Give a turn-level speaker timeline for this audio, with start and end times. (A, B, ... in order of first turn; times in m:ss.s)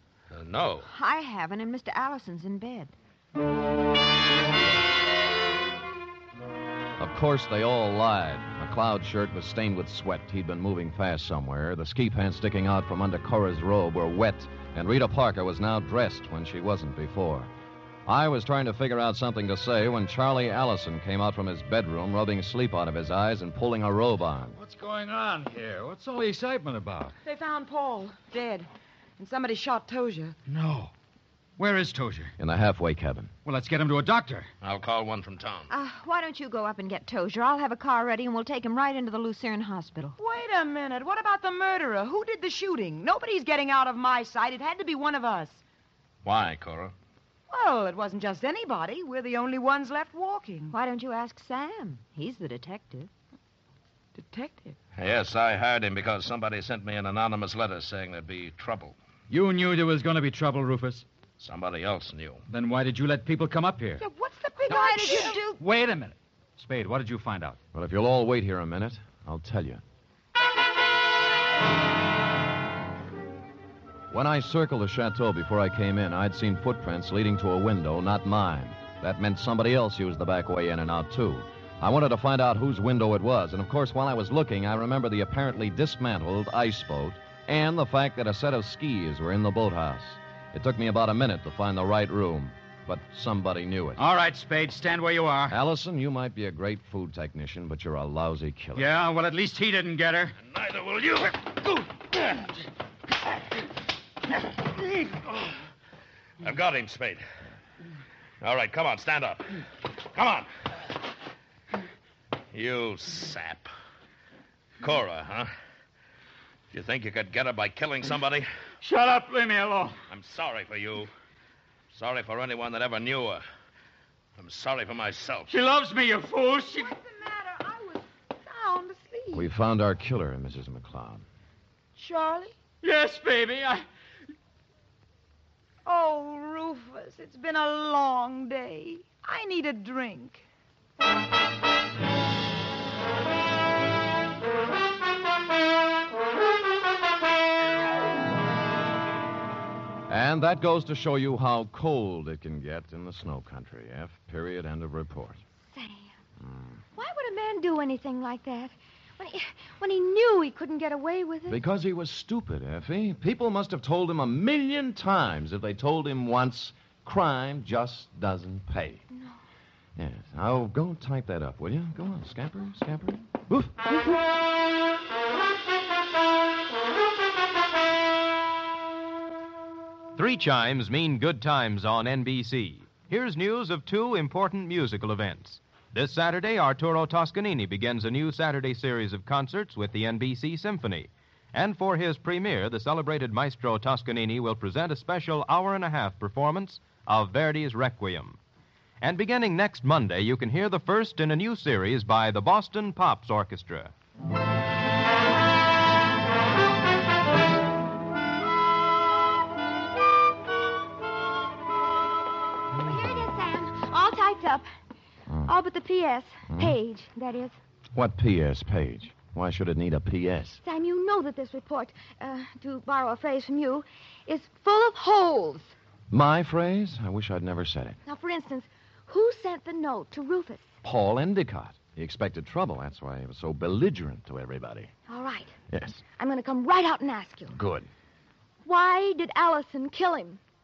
0:00.3-0:00.9 A
0:00.8-0:02.9 B
0:07.0-0:17.5 C
0:18.0-0:24.6 C
0:24.6-0:27.1 D
0:27.2-0:30.4 E
0:30.5-0:30.9 D
0:31.6-0:32.3 D
0:32.4-0:33.3 C
0:33.4-0:34.5 D
0:34.6-0:35.7 A
0:35.7-0:40.2 B
0:40.2-0:45.6 E
0:46.2-0:46.9 A
0:47.5-0:50.7 E
0:50.7-0:53.1 B
0:54.2-0:54.8 B
0:55.0-0:58.9 A
0:59.3-1:01.0 D
1:01.4-1:02.4 A
1:02.5-1:04.0 D
1:04.0-1:05.4 E
1:04.7-1:05.6 B
1:05.0-1:05.3 F
1:05.6-1:07.6 D
1:07.7-1:09.8 C
1:14.1-1:34.0 C
1:34.0-1:35.6 D
1:35.5-1:38.9 C
1:38.8-1:40.4 D
1:40.4-1:41.4 A
1:46.4-1:47.2 A
1:48.4-1:49.6 A
1:50.1-1:50.5 A
1:52.5-1:53.7 A
1:54.8-1:55.5 A
1:56.7-1:58.5 A
1:58.8-2:00.0 D
2:00.1-2:01.1 A
2:01.9-2:03.4 A
2:04.4-2:05.5 A
2:05.5-2:06.9 D
2:06.6-2:09.5 E
2:09.3-2:11.2 C
2:12.0-2:12.6 E
2:12.8-2:13.8 D
2:15.8-2:20.4 E
2:30.1-2:35.4 C
2:35.7-2:36.1 F
2:36.4-2:36.8 C
2:37.0-2:41.6 F
2:41.5-2:49.0 C
2:50.0-2:53.9 C
3:00.2-3:18.4 G
3:19.0-3:23.9 G
3:32.8-3:34.7 F
3:35.3-3:35.5 C
3:35.4-3:37.5 F
3:37.9-3:40.6 C
3:40.6-3:45.7 F
3:46.1-3:48.0 C
3:48.0-3:50.7 F
3:50.8-3:54.9 C
3:55.1-3:55.5 F
3:55.7-3:56.0 C
3:56.2-3:57.6 F
3:57.5-3:57.9 C
3:58.6-4:00.4 F